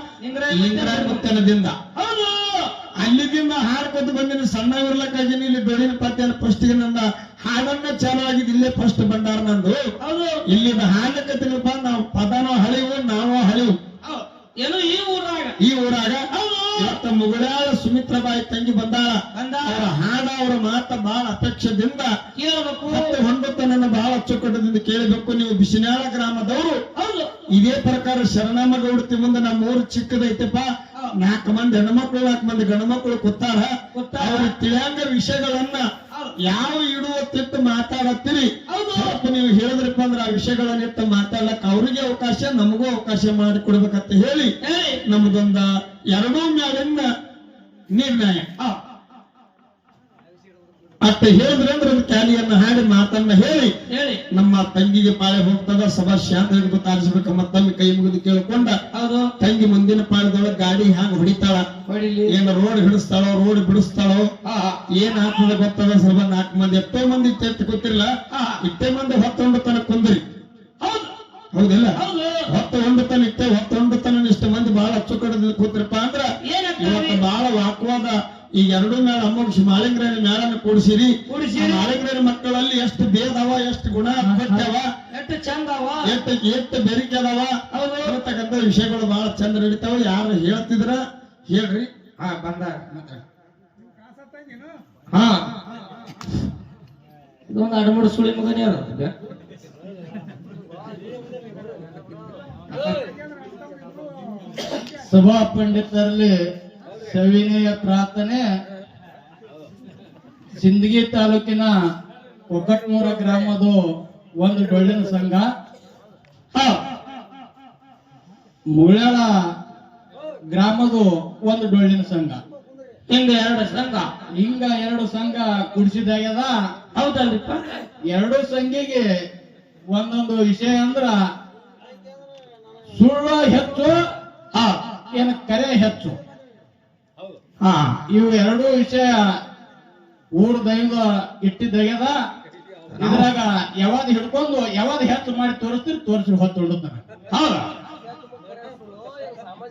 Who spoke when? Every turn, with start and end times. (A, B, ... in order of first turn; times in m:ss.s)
0:00.2-0:01.2 A
0:00.5-0:01.8 B
0:02.0-0:02.7 A
0:03.0-0:09.8 B
0:10.0-0:10.4 A
0:10.5-0:13.7 B
0:14.0-0:15.6 A
0:15.6-0:16.2 B
0:16.3-0:17.0 A
0:16.8-0:22.1 B
0:19.3-0:19.9 A
0:22.4-0:23.2 A
0:22.9-0:26.8 B
0:27.0-0:27.3 A
0:27.5-0:35.8 B
0:33.9-0:34.5 A
0:36.1-0:36.4 A
0:36.4-0:44.5 B
0:38.7-0:39.2 A
0:44.6-0:45.0 A
0:45.0-0:47.1 B
0:47.9-0:48.4 B
0:51.0-0:53.7 B
0:53.9-0:54.2 A
0:54.3-0:58.8 B
0:58.9-0:59.3 A
0:59.4-1:01.7 B
1:01.9-1:02.3 A
1:02.3-1:04.3 B
1:04.4-1:04.8 A
1:04.9-1:08.1 B
1:08.3-1:08.6 A
1:08.6-1:10.2 B
1:10.8-1:11.1 A
1:11.5-1:12.0 B
1:12.0-1:12.5 A
1:12.5-1:16.3 B
1:16.4-1:17.2 A
1:16.8-1:24.9 B
1:21.3-1:21.9 A
1:24.3-1:26.1 A
1:26.0-1:31.9 B
1:27.7-1:28.2 A
1:32.2-1:33.2 A
1:35.1-1:35.5 A
1:37.5-1:39.1 A
1:42.7-1:43.0 A
1:44.9-1:46.3 C
1:47.0-1:48.4 C
1:50.6-1:51.8 C
1:52.5-1:53.8 C
1:54.4-1:55.5 C
1:58.7-1:59.3 C
2:00.5-2:02.4 C
2:03.1-2:04.1 A
2:04.3-2:06.6 C
2:07.0-2:07.6 A
2:08.1-2:09.0 C
2:09.9-2:11.2 C
2:13.0-2:14.0 C
2:15.1-2:16.2 C
2:17.6-2:18.0 A
2:18.1-2:19.4 C
2:20.4-2:22.2 C
2:23.0-2:27.6 C